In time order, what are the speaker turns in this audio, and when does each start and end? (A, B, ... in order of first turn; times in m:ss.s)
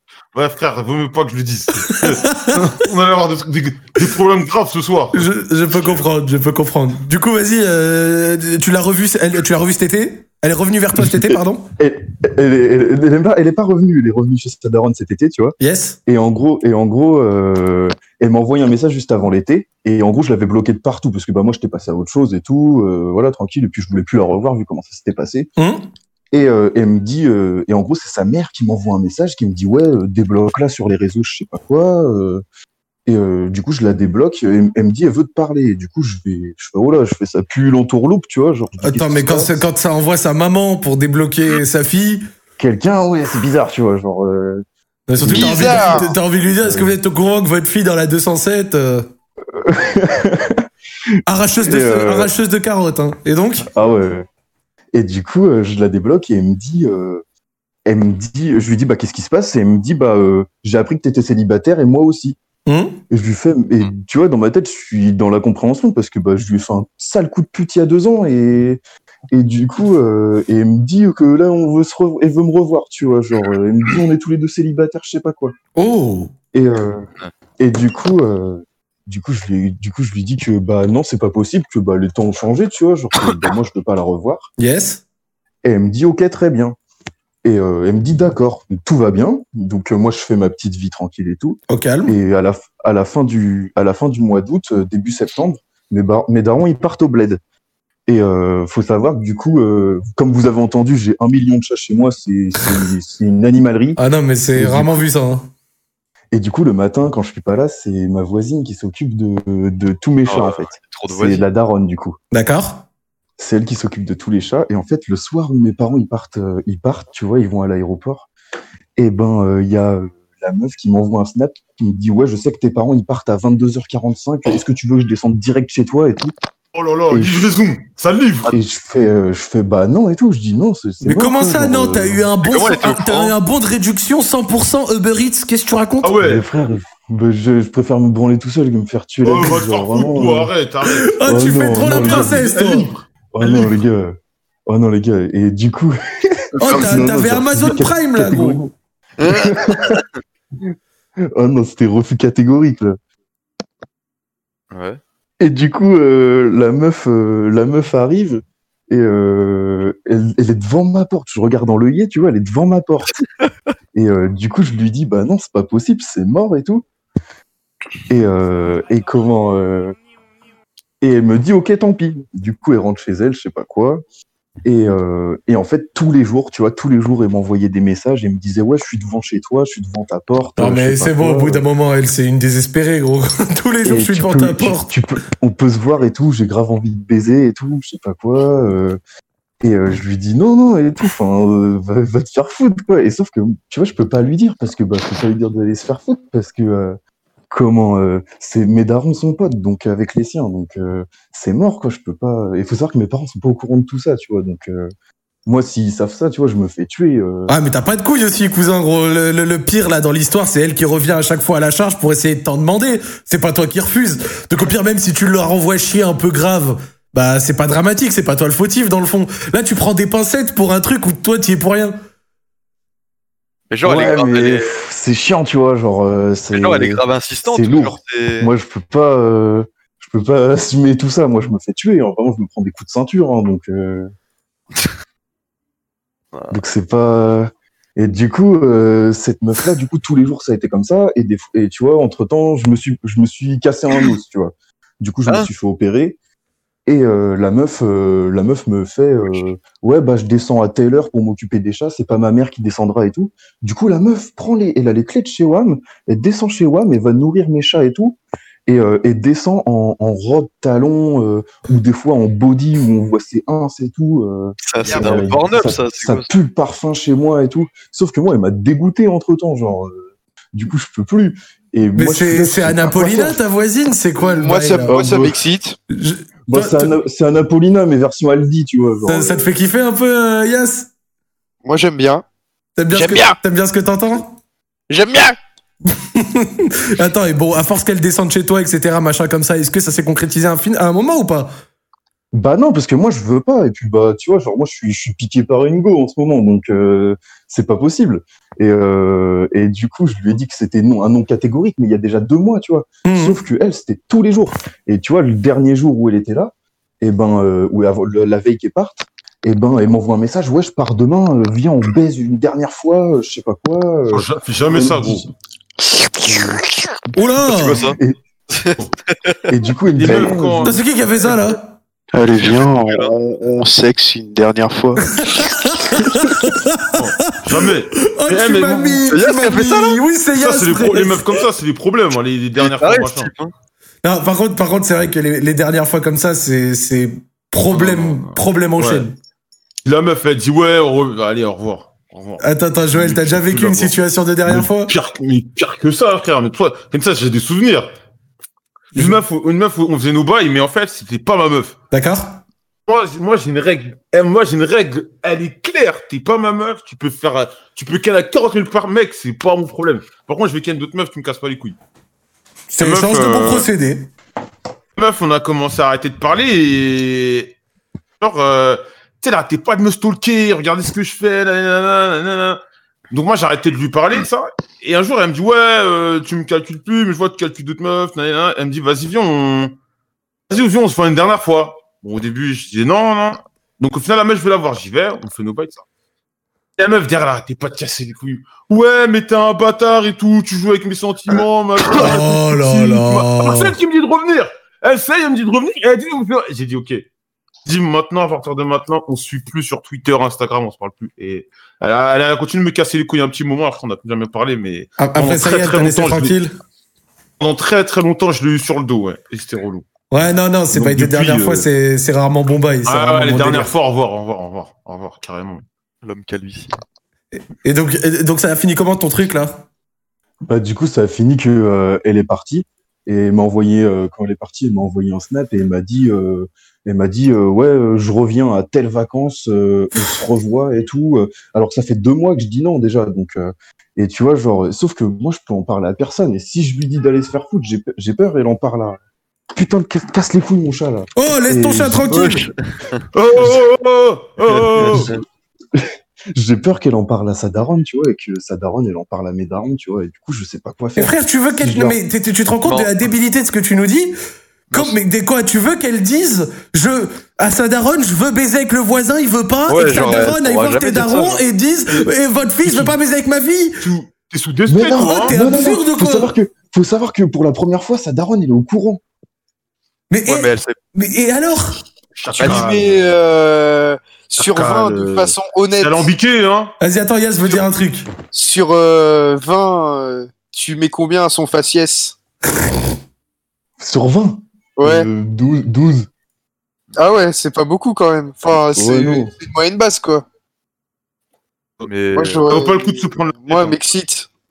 0:00.3-0:05.2 A
0:01.9-0:02.6 B
0:05.1-0:11.7 B
0:11.0-0:25.5 C
0:15.6-0:16.0 B
0:25.6-0:25.9 B
0:26.3-0:32.4 C
0:33.1-0:39.6 C
0:38.8-0:42.3 B
0:42.6-0:44.6 C
0:45.1-0:49.1 B
0:45.2-0:47.0 C
0:45.2-0:46.1 D
0:49.5-0:50.6 C
0:51.3-0:53.7 B
0:51.6-0:52.3 C
0:53.7-0:54.3 C
0:54.9-0:57.2 C
0:57.9-1:02.4 C
1:02.7-1:03.0 B
1:03.1-1:15.5 C
1:15.8-1:16.3 B
1:16.5-1:17.1 C
1:17.6-1:24.5 C
1:24.6-1:25.0 B
1:25.6-1:26.8 C
1:27.4-1:37.4 C
1:31.7-1:32.2 B
1:38.1-1:44.0 C
1:44.0-1:45.5 B
1:44.6-1:45.0 C
1:46.3-1:52.2 C
1:50.3-1:51.5 E
1:52.3-1:52.8 B
1:53.4-1:58.3 C
1:59.0-2:06.4 C
2:06.7-2:08.5 A
2:07.1-2:07.5 C
2:08.5-2:12.2 C
2:11.0-2:16.2 B
2:12.5-2:13.4 E
2:16.0-2:16.4 A
2:16.2-2:20.5 C
2:19.2-2:21.1 A
2:20.9-2:22.9 B
2:21.3-2:22.7 C
2:21.8-2:23.8 A
2:23.3-2:28.7 C
2:26.6-2:28.6 B
2:29.2-2:29.5 E
2:29.3-2:30.0 C
2:31.3-2:33.0 C
2:34.7-2:35.0 E
2:35.4-2:43.2 C
2:43.9-2:46.8 C
2:48.1-2:50.0 C
2:51.0-2:54.0 C
2:54.6-3:01.6 C
3:00.6-3:04.9 B
3:03.8-3:09.0 C
3:09.6-3:17.0 C
3:17.5-3:24.9 C
3:25.5-3:27.5 C
3:27.5-3:42.0 B
3:43.7-3:44.8 E
3:43.8-3:54.1 C
3:46.5-3:48.5 E
3:56.3-3:56.6 E
3:56.5-4:06.2 C
4:06.9-4:33.4 C
4:24.6-4:26.3 E
4:24.8-4:25.3 D
4:32.0-4:35.0 B
4:34.2-4:35.8 D
4:34.9-4:35.4 C
4:35.9-4:37.0 B
4:36.5-4:39.5 C
4:39.0-4:40.9 B
4:41.6-4:42.2 D
4:42.8-4:44.4 B
4:42.9-4:43.4 D
4:44.9-4:45.4 D
4:45.9-4:51.5 B
4:52.3-5:15.3 C
5:03.0-5:03.4 B
5:14.1-5:15.3 A
5:17.2-5:17.9 B
5:17.5-5:18.0 E
5:18.5-5:19.4 E
5:19.5-5:20.8 C
5:19.9-5:20.8 A
5:20.6-5:21.8 B
5:22.1-5:25.5 F
5:22.3-5:23.2 E
5:25.2-5:27.4 B
5:27.0-5:29.0 A
5:28.0-5:31.3 B
5:29.1-5:30.0 E
5:30.4-5:33.3 A
5:32.6-5:33.5 E
5:34.0-5:39.2 B
5:37.7-5:39.1 A
5:39.8-5:47.9 A
5:42.4-5:44.9 B
5:48.9-5:51.8 A
5:51.9-5:52.4 B
5:52.9-6:01.8 A
6:02.7-6:04.1 B
6:02.8-6:03.7 A
6:05.0-6:07.6 A
6:08.2-6:12.6 A
6:13.1-6:19.8 A
6:20.5-6:25.8 A
6:26.8-6:37.1 A
6:31.9-6:33.8 B
6:37.6-6:46.4 A
6:45.0-6:46.5 B
6:47.4-6:49.8 A
6:50.1-6:53.7 B
6:50.7-6:51.6 A
6:52.8-6:55.6 A
6:56.0-6:56.7 E
6:57.3-6:59.7 B
7:00.5-7:19.0 C
7:19.5-7:22.3 C
7:21.2-7:22.5 B
7:22.1-7:23.0 E
7:23.1-7:25.1 A
7:24.4-7:25.2 E
7:25.8-7:32.0 C
7:31.0-7:34.2 B
7:32.6-7:32.9 E
7:34.7-7:43.9 B
7:39.7-7:41.4 E
7:42.6-7:42.9 A
7:43.8-7:45.4 A
7:44.7-7:49.0 C
7:45.0-7:46.4 B
7:50.1-7:51.8 B
7:50.3-7:50.8 E
7:52.2-7:52.9 A
7:52.3-7:52.7 E
7:52.4-7:56.1 D
7:54.4-7:56.8 A
7:56.8-7:58.1 B
7:58.3-8:02.2 D
8:03.8-8:06.1 C
8:04.8-8:05.1 D
8:07.0-8:10.2 D
8:08.7-8:09.3 C
8:11.8-8:12.5 E
8:12.1-8:14.3 D
8:12.5-8:13.8 A